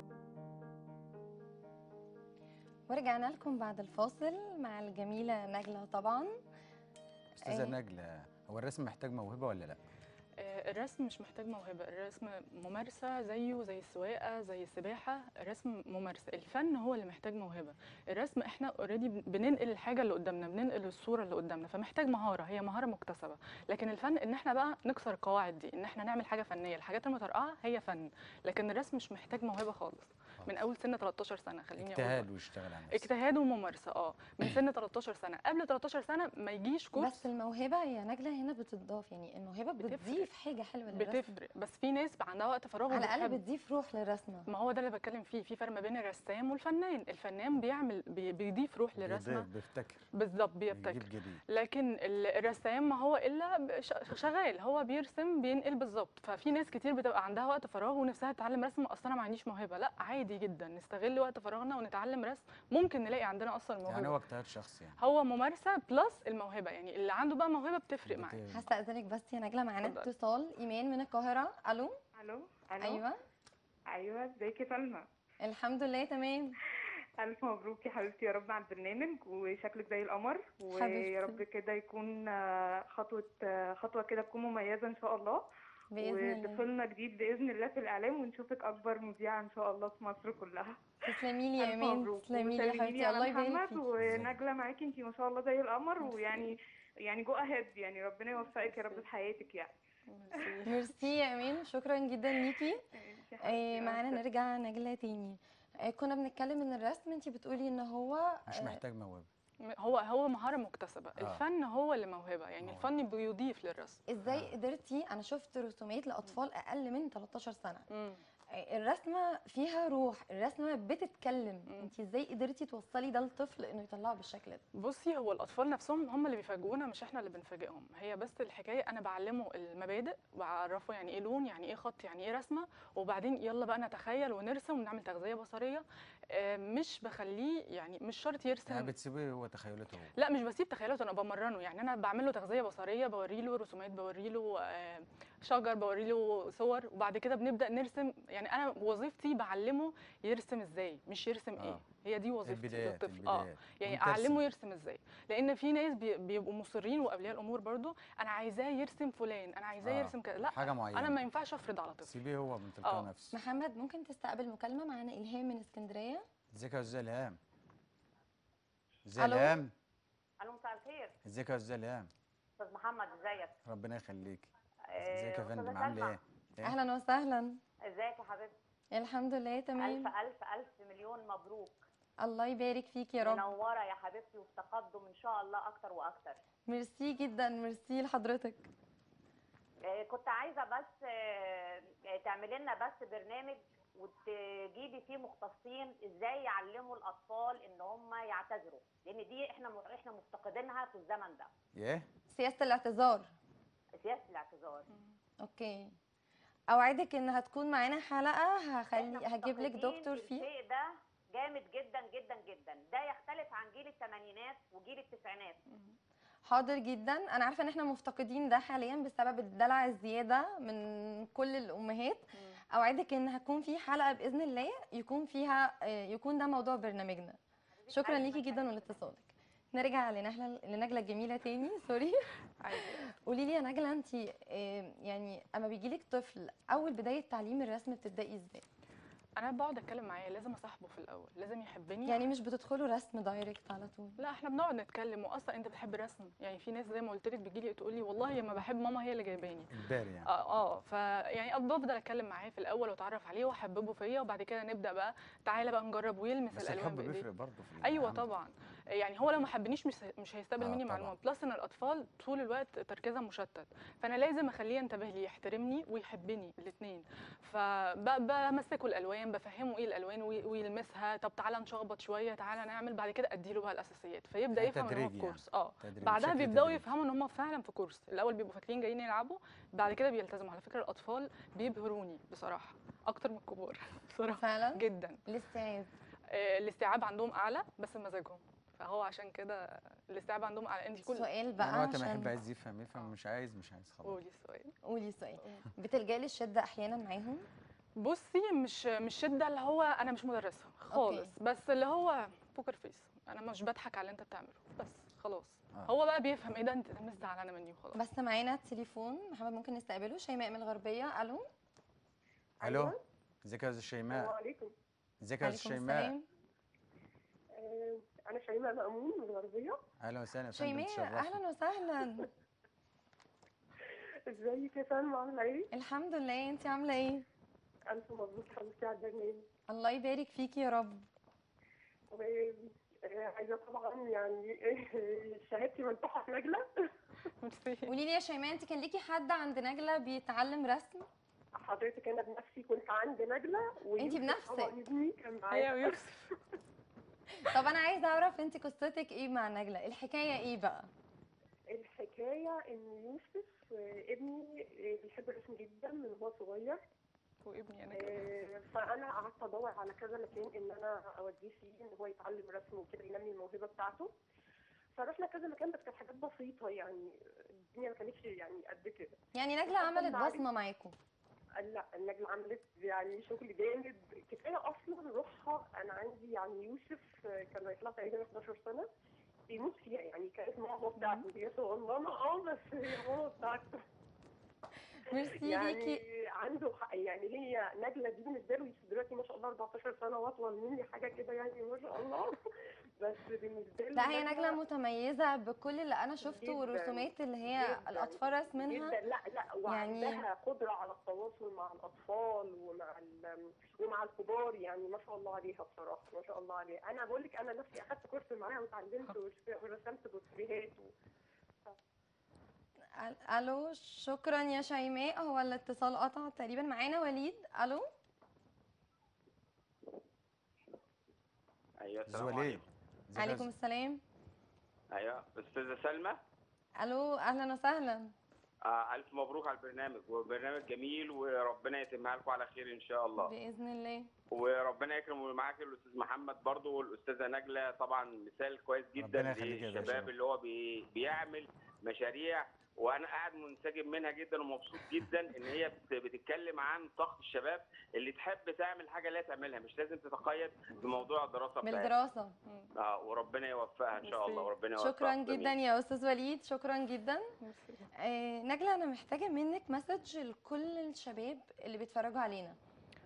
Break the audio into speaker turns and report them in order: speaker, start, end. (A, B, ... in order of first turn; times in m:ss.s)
0:02.9-0:06.3 A
0:07.4-0:07.8 A
0:07.4-0:09.8 B
0:10.4-0:32.3 C
0:31.8-0:33.1 B
0:32.9-0:37.2 C
0:37.0-0:41.4 A
0:39.8-0:40.3 C
0:40.9-0:43.4 C
0:42.9-0:44.5 A
0:44.5-0:49.5 C
0:48.9-0:50.1 B
0:50.1-1:04.2 C
0:50.7-0:51.4 B
1:03.8-1:05.0 B
1:05.0-1:08.4 C
1:08.0-1:08.6 B
1:08.5-1:12.0 A
1:12.2-1:13.0 D
1:12.8-1:13.1 A
1:13.9-1:15.0 D
1:15.4-1:16.5 A
1:17.2-1:22.2 D
1:20.7-1:21.4 A
1:22.9-1:25.4 D
1:25.9-1:26.6 A
1:26.0-1:36.5 D
1:31.1-1:33.8 A
1:34.0-1:34.4 B
1:36.1-1:36.4 A
1:37.0-1:39.7 D
1:38.4-1:39.0 C
1:40.1-1:40.8 C
1:40.6-1:42.8 A
1:42.5-1:44.2 D
1:43.4-1:48.8 A
1:48.5-1:49.3 B
1:49.6-1:54.0 C
1:52.6-1:52.9 B
1:54.1-1:57.9 A
1:54.3-1:54.5 B
1:57.9-1:58.2 C
1:58.5-2:04.6 A
2:04.8-2:18.9 C
2:18.7-2:20.1 B
2:20.2-2:42.2 C
2:31.6-2:31.8 B
2:32.4-2:34.4 B
2:39.8-2:41.2 B
2:42.0-2:43.4 B
2:42.8-2:43.1 C
2:43.3-2:46.2 A
2:46.5-2:47.4 B
2:49.0-2:49.7 B
2:49.2-2:49.6 A
2:50.4-2:51.1 E
2:51.2-2:52.1 B
2:52.6-2:53.5 E
2:53.6-2:56.8 B
2:54.9-2:56.2 E
2:56.6-2:57.6 A
2:57.8-2:58.5 E
2:58.9-3:00.1 A
2:59.8-3:01.8 E
3:02.2-3:03.5 A
3:03.2-3:06.4 E
3:06.7-3:08.7 A
3:09.8-3:21.5 E
3:21.8-3:22.1 B
3:22.3-3:23.3 A
3:24.0-3:24.8 E
3:24.9-3:25.1 C
3:25.4-3:26.0 A
3:26.7-3:30.5 A
3:28.9-3:35.6 E
3:35.7-3:35.9 C
3:36.4-3:52.2 A
3:42.4-3:42.6 C
3:47.8-3:49.1 E
3:52.6-3:53.0 C
3:52.9-3:58.6 A
3:59.4-4:02.2 C
4:02.0-4:04.2 A
4:04.2-4:09.7 C
4:09.7-4:10.3 B
4:10.2-4:17.3 C
4:16.5-4:18.2 B
4:17.8-4:45.2 C
4:20.6-4:21.1 B
4:34.5-4:36.9 B
4:44.4-4:45.9 A
4:46.3-4:51.3 C
4:51.1-4:52.3 A
4:51.6-4:54.2 B
4:54.0-4:54.7 C
4:54.9-4:57.5 A
4:55.4-4:55.7 C
4:58.0-5:08.0 C
5:00.9-5:01.3 A
5:07.9-5:11.4 A
5:12.6-5:13.0 D
5:12.6-5:14.3 B
5:14.1-5:14.7 D
5:15.2-5:16.1 B
5:15.4-5:16.2 A
5:17.5-5:19.8 D
5:20.0-5:21.4 B
5:20.5-5:22.3 A
5:24.3-5:25.7 D
5:25.7-5:27.2 A
5:27.9-5:29.4 D
5:29.7-5:31.1 A
5:32.1-5:36.6 D
5:37.4-5:37.9 C
5:37.9-5:41.1 A
5:41.6-5:46.0 D
5:44.0-5:44.7 A
5:45.5-5:46.3 C
5:47.3-5:50.9 A
5:51.7-5:56.8 D
5:57.4-5:58.2 C
5:57.9-6:04.1 D
6:04.9-6:09.2 D
6:09.4-6:11.0 A
6:09.7-6:10.4 D
6:11.6-6:18.9 D
6:19.5-6:23.8 D
6:25.0-6:26.0 A
6:25.4-6:32.3 D
6:33.0-6:34.6 D
6:33.9-6:39.0 A
6:36.2-6:50.9 D
6:39.7-6:40.2 A
6:53.0-6:57.8 A
7:01.8-7:02.6 F
7:02.1-7:03.5 B
7:03.2-7:04.0 A
7:04.9-7:06.2 F
7:06.8-7:08.1 A
7:08.6-7:13.3 F
7:13.2-7:14.1 A
7:14.3-7:31.9 F
7:19.0-7:20.1 B
7:31.6-7:32.4 A
7:32.8-7:35.5 F
7:34.0-7:34.5 C
7:34.8-7:37.3 A
7:37.4-7:37.8 C
7:38.0-7:42.6 A